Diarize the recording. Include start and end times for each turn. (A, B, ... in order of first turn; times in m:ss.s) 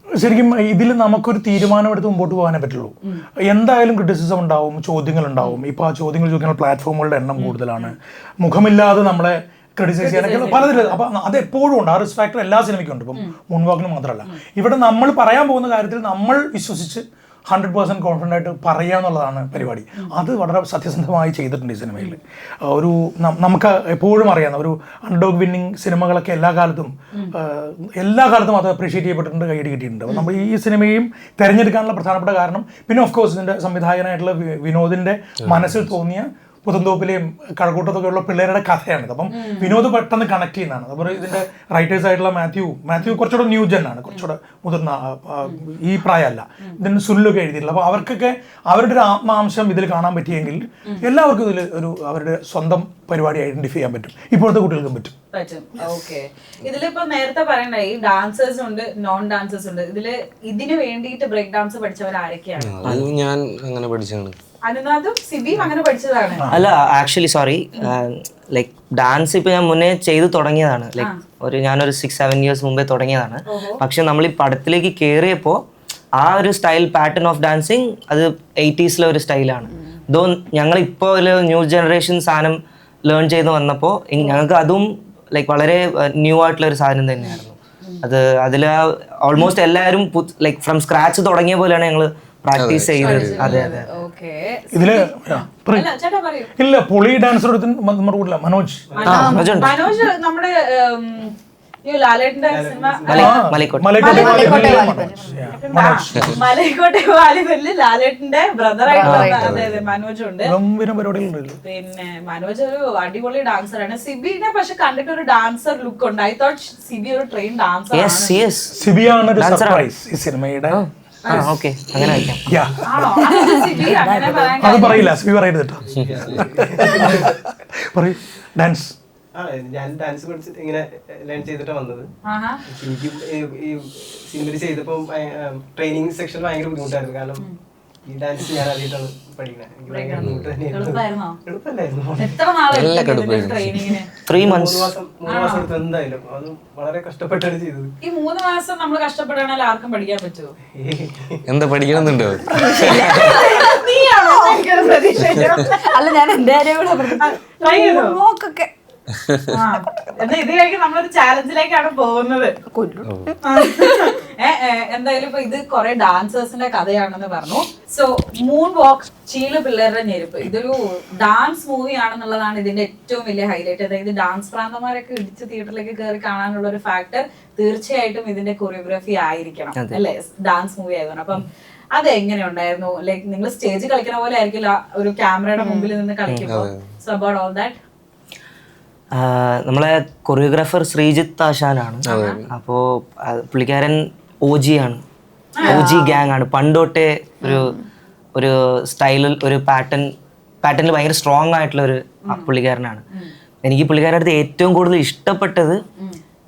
0:00.1-0:55.1 A
0:07.4-0:08.0 B
0:10.0-0:11.0 B
0:35.4-0:35.8 C
0:39.3-0:39.8 B
0:55.3-1:02.8 B
1:02.6-1:04.4 C
1:04.6-1:06.4 B
1:06.4-1:06.6 A
1:06.5-1:15.6 D
1:11.0-1:11.2 B
1:13.5-1:13.8 B
1:16.2-1:33.9 D
1:27.2-1:28.0 B
1:32.6-1:33.6 C
1:33.0-1:36.5 B
1:34.7-1:35.9 A
1:36.6-1:39.6 A
1:38.9-1:39.2 E
1:39.0-1:41.3 B
1:39.0-1:39.7 D
1:39.1-1:39.7 F
1:41.8-1:50.5 B
1:42.5-1:43.3 E
1:43.1-1:44.2 D
1:43.1-1:46.4 A
1:44.0-1:45.4 F
1:48.9-1:49.6 F
1:49.0-1:49.4 D
1:49.4-1:49.8 C
1:50.4-1:51.6 A
1:51.6-1:58.4 B
1:57.9-1:58.7 D
1:58.7-2:00.8 A
1:59.4-1:59.9 D
2:00.7-2:02.5 D
2:01.3-2:01.6 B
2:02.5-2:03.2 A
2:02.9-2:05.1 B
2:03.2-2:04.0 F
2:04.6-2:08.9 A
2:05.9-2:07.4 E
2:09.4-2:12.1 E
2:12.2-2:12.6 B
2:12.7-2:17.5 E
2:18.1-2:22.4 E
2:19.9-2:21.4 B
2:20.2-2:20.5 C
2:22.2-2:24.1 B
2:22.7-2:24.0 C
2:24.2-2:24.9 D
2:24.3-2:27.9 E
2:25.3-2:25.7 B
2:28.0-2:30.5 B
2:30.8-2:32.5 E
2:31.5-2:33.2 C
2:32.5-2:34.6 F
2:33.1-2:35.8 B
2:35.3-2:38.7 F
2:37.2-2:38.2 B
2:39.5-2:42.5 B
2:42.7-2:44.1 F
2:43.0-2:43.3 C
2:43.4-3:07.8 B
2:59.8-3:00.0 D
3:05.6-3:05.9 F
3:06.5-3:06.9 C
3:09.2-3:15.0 D
3:12.1-3:12.4 B
3:12.1-3:12.5 C
3:15.6-3:16.0 B
3:15.6-3:17.8 D
3:15.6-3:16.2 F
3:17.4-3:17.8 F
3:18.4-3:20.1 D
3:20.6-3:23.0 D
3:23.6-3:25.8 D